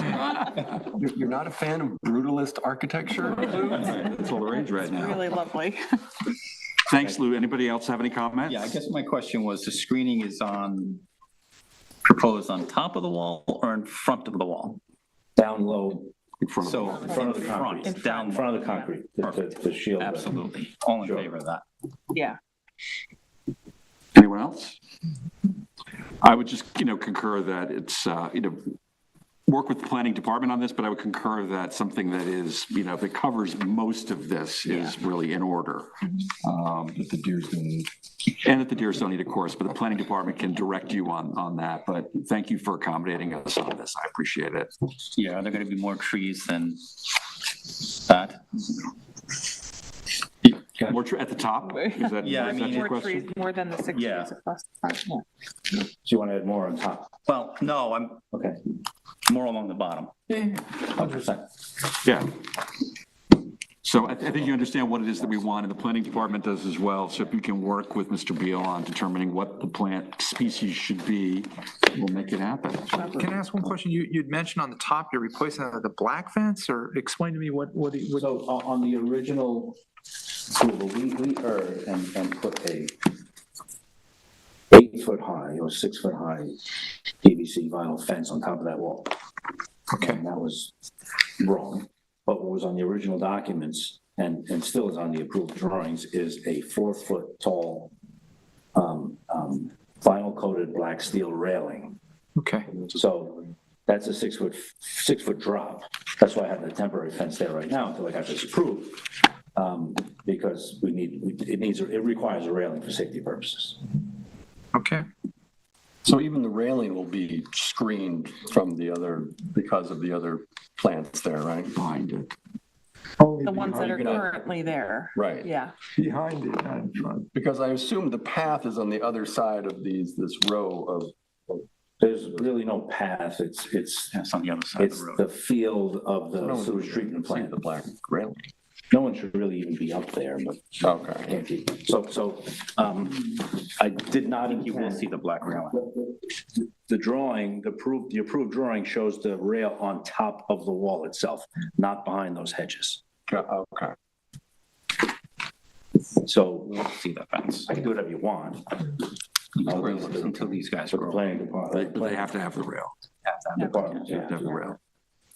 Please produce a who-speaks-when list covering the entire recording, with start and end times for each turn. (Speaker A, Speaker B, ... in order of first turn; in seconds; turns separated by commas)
Speaker A: 0.4-4.0, Speaker B: 3.7-5.3, Speaker C: 4.5-6.0, Speaker B: 6.9-8.8, Speaker D: 8.4-11.0, Speaker D: 12.0-14.8, Speaker E: 15.4-16.1, Speaker B: 16.4-17.1, Speaker D: 16.6-18.6, Speaker E: 16.9-20.4, Speaker C: 16.9-18.9, Speaker D: 20.0-21.6, Speaker E: 21.0-21.3, Speaker C: 22.1-22.4, Speaker B: 24.1-24.8, Speaker B: 26.2-28.7, Speaker B: 29.5-37.1, Speaker D: 34.7-34.9, Speaker A: 37.0-37.9, Speaker B: 38.4-44.7, Speaker D: 45.0-46.8, Speaker D: 47.8-48.7, Speaker B: 50.8-53.3, Speaker C: 51.7-55.2, Speaker D: 52.2-52.9, Speaker D: 53.9-54.3, Speaker E: 56.0-57.1, Speaker D: 57.3-58.2, Speaker E: 58.3-58.6, Speaker D: 59.3-61.4, Speaker B: 62.0-62.3, Speaker B: 63.8-73.2, Speaker F: 73.1-78.2, Speaker E: 78.2-79.8, Speaker E: 80.5-83.0, Speaker E: 84.7-89.1, Speaker F: 89.9-90.2, Speaker E: 90.0-90.7, Speaker E: 91.4-97.9, Speaker E: 98.7-102.0, Speaker F: 102.4-102.7, Speaker E: 102.9-113.8, Speaker F: 114.7-115.0, Speaker A: 116.0-121.7, Speaker B: 121.7-122.3, Speaker G: 123.2-124.2, Speaker C: 123.4-125.7, Speaker A: 123.8-124.3, Speaker A: 125.2-125.5, Speaker G: 126.0-127.3, Speaker A: 127.3-131.1, Speaker E: 132.0-134.2, Speaker D: 134.1-135.2, Speaker E: 134.7-137.5, Speaker A: 136.4-138.5, Speaker E: 138.9-145.1, Speaker A: 140.8-141.4, Speaker D: 144.4-145.8, Speaker E: 146.6-153.0, Speaker A: 153.3-153.9, Speaker E: 156.2-156.9, Speaker D: 156.7-157.7, Speaker E: 157.7-158.9, Speaker D: 159.6-161.2, Speaker E: 159.6-162.3, Speaker A: 159.7-160.5, Speaker B: 161.7-162.9, Speaker D: 163.2-164.6, Speaker E: 163.6-164.3, Speaker B: 164.1-164.8